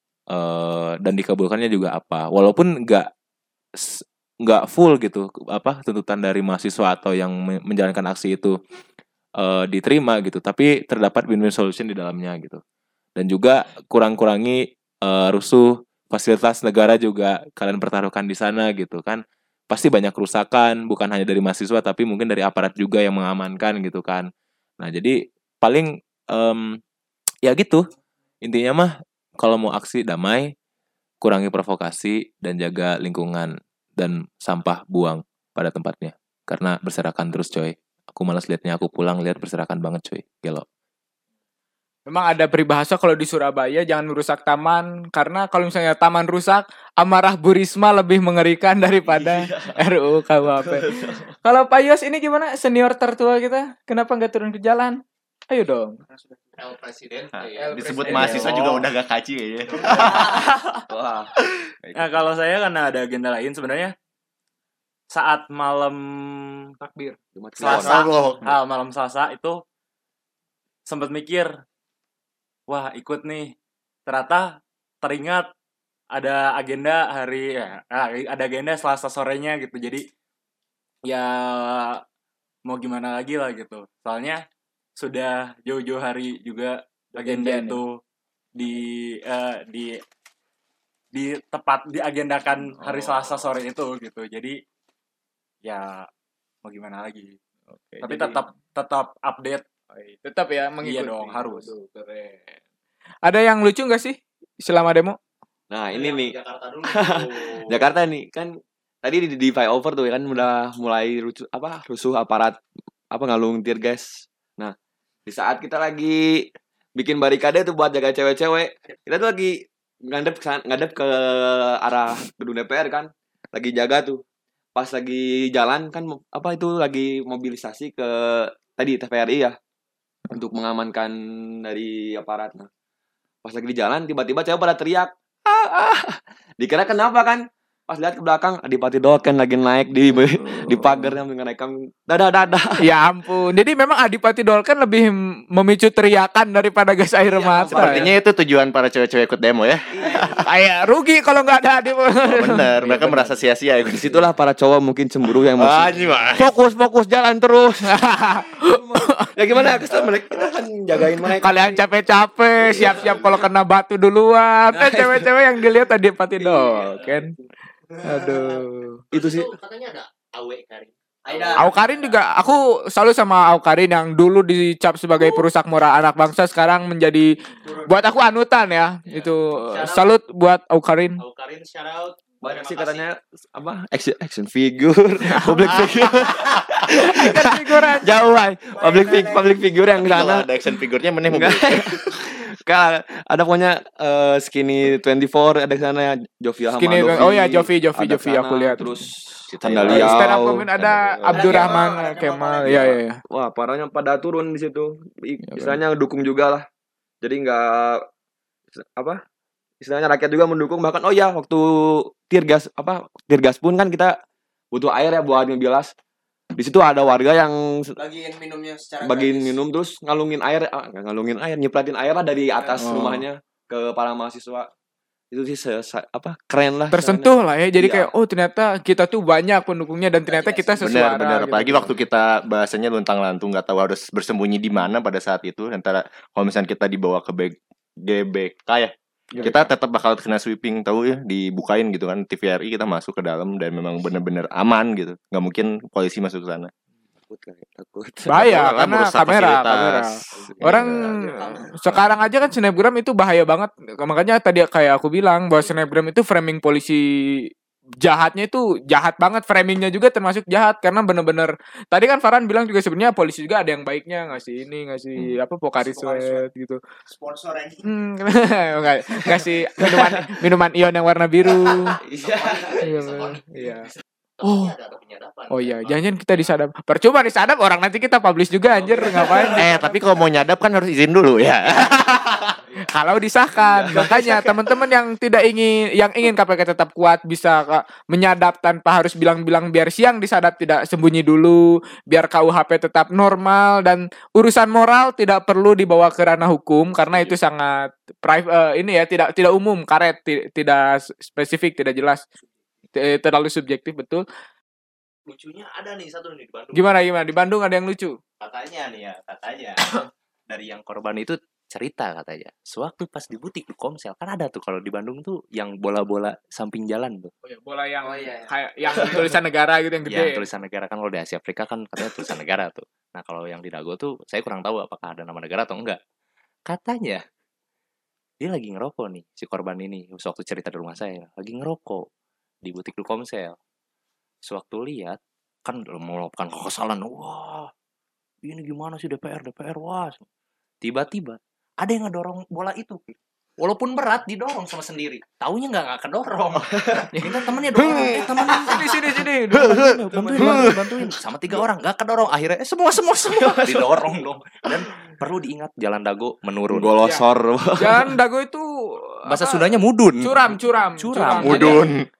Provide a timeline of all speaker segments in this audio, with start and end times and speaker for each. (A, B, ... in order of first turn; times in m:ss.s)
0:00.3-0:03.0 A
0:03.8-0:08.6 A
0:09.4-0:12.6 A
0:13.2-0:24.2 A
0:24.8-0:26.6 A
0:27.4-0:27.8 A
0:28.4-0:30.5 A
0:31.2-0:40.6 A
0:42.1-0:56.0 B
0:49.0-0:49.8 C
0:50.5-0:51.3 C
0:56.1-0:56.4 D
0:56.6-0:58.6 E
0:57.3-1:00.4 A
0:57.6-0:58.8 B
1:00.9-1:01.3 C
1:01.9-1:03.9 F
1:05.1-1:06.7 F
1:06.8-1:07.2 B
1:07.3-1:08.1 C
1:07.6-1:09.6 F
1:07.6-1:08.5 A
1:10.8-1:11.6 F
1:12.7-1:13.5 F
1:14.0-1:15.5 F
1:16.1-1:20.0 F
1:21.0-1:22.0 F
1:22.6-1:24.4 F
1:25.0-1:28.0 F
1:27.1-1:27.8 B
1:28.5-1:30.0 F
1:31.1-1:34.6 F
1:32.8-1:33.2 B
1:35.6-1:36.1 F
1:36.6-1:37.4 F
1:37.7-1:38.4 B
1:38.0-1:39.6 F
1:39.9-1:42.5 B
1:40.8-1:41.7 F
1:43.2-1:45.2 B
1:45.7-1:52.6 C
1:45.9-1:47.8 E
1:53.1-1:54.7 C
1:55.2-2:04.2 C
2:04.7-2:09.6 C
2:10.3-2:12.7 C
2:13.4-2:22.8 C
2:20.4-2:21.1 B
2:22.8-2:28.1 B
2:27.2-2:28.2 C
2:27.7-2:30.4 A
2:29.9-2:30.4 C
2:30.4-2:32.7 B
2:32.3-2:34.2 A
2:33.8-2:36.2 C
2:35.6-2:36.5 A
2:37.2-2:37.7 E
2:37.9-2:39.3 B
2:38.6-2:41.8 C
2:41.3-2:47.3 B
2:42.7-2:43.4 C
2:44.7-2:45.3 C
2:46.4-2:47.4 C
2:48.0-2:49.0 B
2:49.1-2:49.5 C
2:49.1-2:51.8 E
2:51.2-2:51.7 D
2:51.6-2:57.3 B
2:57.6-2:58.1 D
2:57.8-3:01.2 B
2:59.1-3:00.1 E
3:01.2-3:03.0 E
3:02.4-3:10.5 C
3:05.3-3:05.6 B
3:06.9-3:08.1 B
3:08.8-3:09.5 D
3:10.0-3:12.1 A
3:11.3-3:21.8 C
3:16.7-3:18.9 B
3:19.5-3:20.3 A
3:19.8-3:23.2 B
3:21.3-3:22.9 D
3:22.6-3:26.6 C
3:27.2-3:28.0 C
3:28.8-3:29.2 C
3:29.8-3:34.2 C
3:34.7-3:35.9 C
3:36.6-3:38.0 C
3:38.0-3:39.6 D
3:39.0-3:44.7 C
3:42.8-3:43.2 B
3:45.3-3:48.1 C
3:46.9-3:51.9 B
3:50.3-3:50.7 D
3:50.6-3:50.9 C
3:50.8-3:58.9 A
3:59.4-4:06.7 A
4:07.2-4:08.6 C
4:08.3-4:17.0 B
4:08.4-4:11.1 A
4:10.3-4:11.6 C
4:11.3-4:11.7 D
4:18.0-4:26.8 B
4:25.8-4:26.4 D
4:27.1-4:27.8 D
4:27.8-4:32.0 B
4:29.8-4:30.2 C
4:31.6-4:32.8 C
4:32.2-4:33.4 E
4:32.8-4:33.9 B
4:34.4-4:36.5 E
4:34.4-4:34.7 B
4:35.5-4:39.6 B
4:38.8-4:39.8 C
4:39.6-4:42.5 A
4:42.9-5:02.2 B
4:43.6-4:44.5 C
5:02.9-5:04.2 B
5:05.3-5:06.9 E
5:06.7-5:08.2 B
5:08.4-5:09.9 E
5:10.5-5:17.3 E
5:17.4-5:20.4 B
5:18.0-5:18.5 D
5:20.0-5:26.0 E
5:26.7-5:27.2 E
5:28.4-5:32.1 E
5:32.6-5:33.6 E
5:34.4-5:37.7 E
5:38.4-5:40.2 E
5:40.8-5:43.0 E
5:43.6-5:57.0 E
5:46.7-5:47.1 C
5:47.8-5:48.0 A
5:48.6-5:49.9 B
5:49.6-5:50.6 A
5:50.1-5:50.8 C
5:53.3-5:54.0 C
5:56.7-5:58.2 C
5:57.8-6:01.8 B
5:59.3-6:01.9 E
6:01.4-6:02.0 A